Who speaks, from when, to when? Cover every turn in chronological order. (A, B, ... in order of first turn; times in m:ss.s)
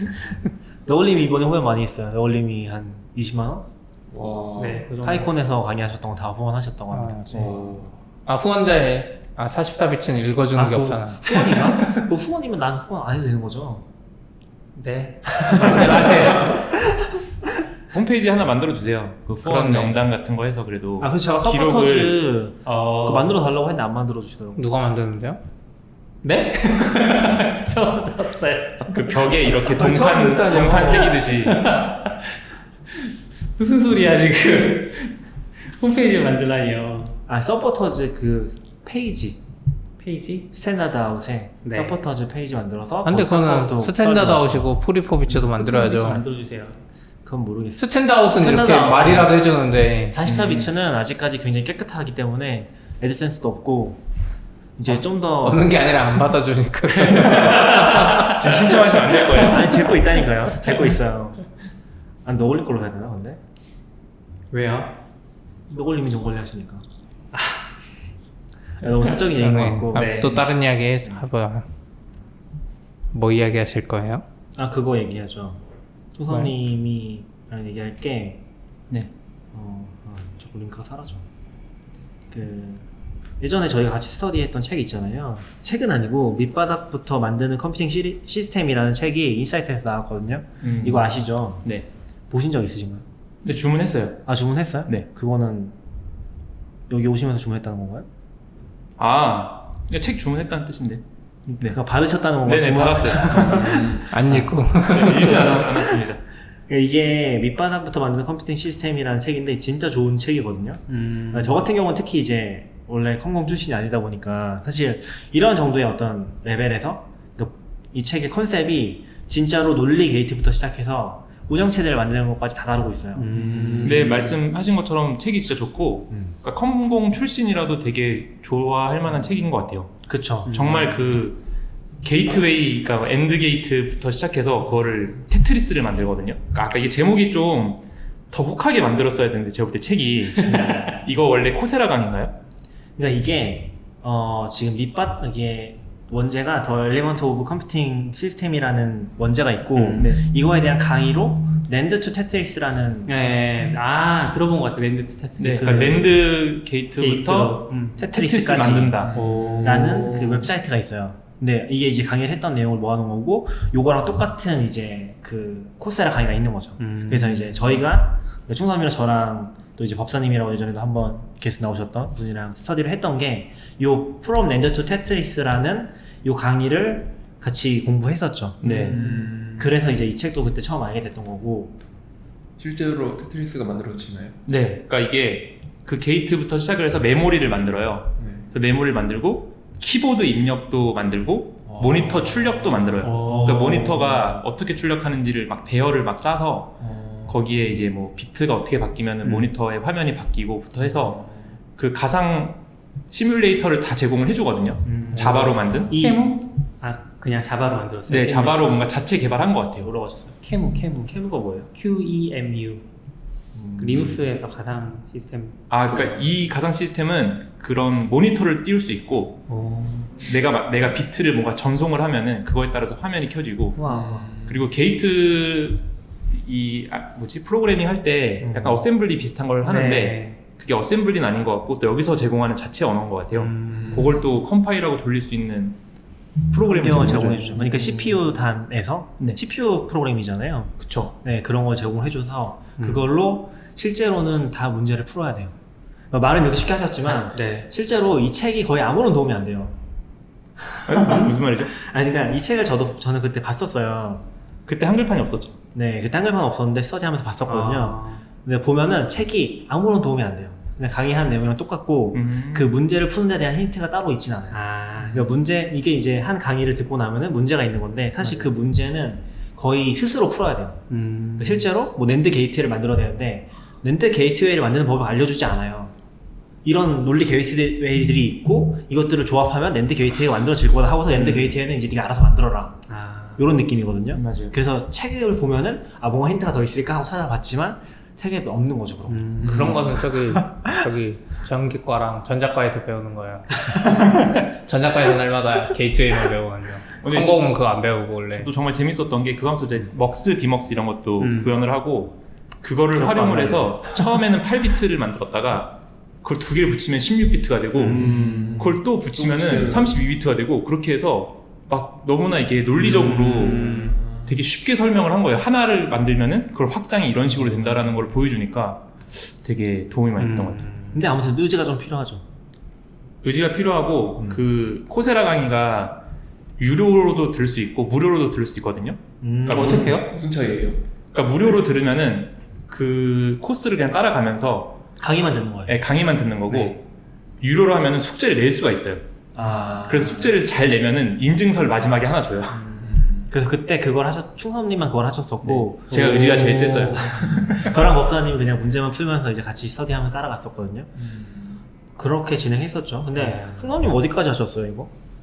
0:00.8-0:03.6 A
0:04.1-0:04.9 B
0:04.6-0:05.3 C
0:05.0-0:07.5 A
0:06.9-0:07.5 D
0:07.3-0:07.8 B
0:07.4-0:07.9 E
0:08.2-0:11.6 D
0:10.5-0:13.8 A
0:14.8-0:16.6 C
0:15.4-0:16.6 A
0:17.9-0:22.2 E
0:19.4-0:20.0 D
0:21.0-0:24.6 A
0:22.6-0:23.3 C
0:24.6-0:25.4 D
0:26.2-0:29.1 C
0:28.9-0:31.7 E
0:29.6-0:32.4 C
0:30.2-0:30.9 A
0:32.9-0:37.1 C
0:37.3-0:39.4 A
0:40.0-0:40.5 C
0:40.5-0:44.7 A
0:41.6-0:41.9 C
0:43.0-0:46.2 D
0:45.5-0:46.7 C
0:47.2-0:49.4 A
0:47.8-0:50.2 D
0:50.1-0:54.0 A
0:50.2-0:50.7 E
0:54.8-0:55.9 A
0:55.4-0:58.3 D
0:57.1-0:57.9 C
0:58.0-0:59.9 E
0:59.3-1:01.4 A
1:02.2-1:03.4 A
1:04.5-1:05.0 C
1:05.7-1:06.8 A
1:08.8-1:10.5 A
1:09.4-1:11.6 D
1:09.9-1:10.4 C
1:13.1-1:14.2 D
1:14.6-1:15.6 A
1:16.1-1:18.4 A
1:19.5-1:21.3 A
1:22.3-1:22.8 A
1:23.4-1:31.7 A
1:30.6-1:31.9 E
1:32.3-1:33.0 A
1:33.4-1:34.3 E
1:34.2-1:35.7 A
1:36.9-1:38.1 A
1:39.0-1:41.0 E
1:41.5-1:46.0 A
1:42.4-1:43.8 E
1:43.3-1:44.1 B
1:44.1-1:45.6 D
1:44.8-1:46.2 E
1:46.7-2:04.1 A
1:50.9-1:51.5 C
2:03.2-2:04.4 C
2:03.8-2:10.0 E
2:10.1-2:10.8 A
2:10.5-2:11.0 C
2:10.5-2:11.4 E
2:12.0-2:22.3 E
2:20.4-2:21.0 C
2:23.0-2:33.1 A
2:29.8-2:30.0 C
2:30.0-2:30.2 E
2:33.0-2:36.1 C
2:35.4-2:39.2 E
2:37.0-2:38.0 C
2:38.0-3:01.7 A
2:39.0-2:40.2 B
2:39.1-2:40.5 C
2:46.8-2:47.7 C
2:58.6-2:59.0 E
2:58.6-2:59.8 B
3:02.6-3:04.4 B
3:04.4-3:21.2 E
3:08.2-3:08.5 B
3:11.7-3:14.2 B
3:13.0-3:13.8 C
3:13.3-3:14.0 A
3:16.8-3:17.4 B
3:20.8-3:21.5 B
3:21.8-3:22.6 E
3:23.1-3:25.9 E
3:24.8-3:26.3 A
3:25.1-3:28.7 C
3:28.1-3:29.9 E
3:29.8-3:30.4 A
3:30.4-3:31.2 C
3:31.0-3:31.7 A
3:31.7-3:32.8 C
3:33.5-3:34.2 A
3:33.8-3:36.2 C
3:35.7-3:39.4 E
3:39.5-3:40.0 C
3:40.2-3:43.8 E
3:43.8-3:44.3 C
3:43.8-3:44.7 B
3:44.4-3:55.8 E
3:48.4-3:48.8 A
3:49.6-3:50.4 C
3:53.4-3:54.2 C
3:53.7-3:54.1 B
3:56.5-3:57.6 E
3:56.5-4:05.5 A
4:00.8-4:01.1 E
4:02.8-4:03.0 C
4:06.1-4:09.8 A
4:07.4-4:07.6 C
4:10.6-4:14.2 A
4:10.8-4:11.7 E
4:14.6-4:15.6 E
4:15.7-4:30.8 A
4:17.5-4:18.2 C
4:22.1-4:22.7 E
4:24.5-4:25.3 C
4:28.2-4:28.5 C
4:30.9-4:31.7 C
4:31.4-4:35.9 A
4:36.6-4:42.8 A
4:41.1-4:41.5 C
4:42.9-4:43.5 C
4:43.4-4:50.6 A
4:44.1-4:44.5 E
4:49.1-4:49.9 C
4:49.4-4:58.5 D
4:57.0-4:57.5 E
4:58.3-5:20.7 E
5:01.2-5:01.5 C
5:03.0-5:03.8 A
5:07.9-5:10.0 B
5:07.9-5:08.5 A
5:12.8-5:14.0 C
5:13.1-5:14.4 B
5:20.2-5:21.0 C
5:20.9-5:22.2 A
5:23.2-5:26.0 E
5:24.2-5:24.4 A
5:26.6-5:29.9 E
5:29.2-5:30.0 A
5:29.5-5:30.8 B
5:29.5-5:30.1 C
5:31.1-5:34.8 E
5:35.0-5:35.8 A
5:35.7-5:36.8 E
5:37.4-5:39.0 E
5:39.4-5:40.3 B
5:39.4-5:39.9 A
5:39.8-5:42.6 E
5:42.7-5:43.3 B
5:42.8-5:50.9 A
5:45.4-5:47.7 E
5:51.0-5:51.6 B
5:52.0-5:54.9 A
5:53.2-5:53.7 C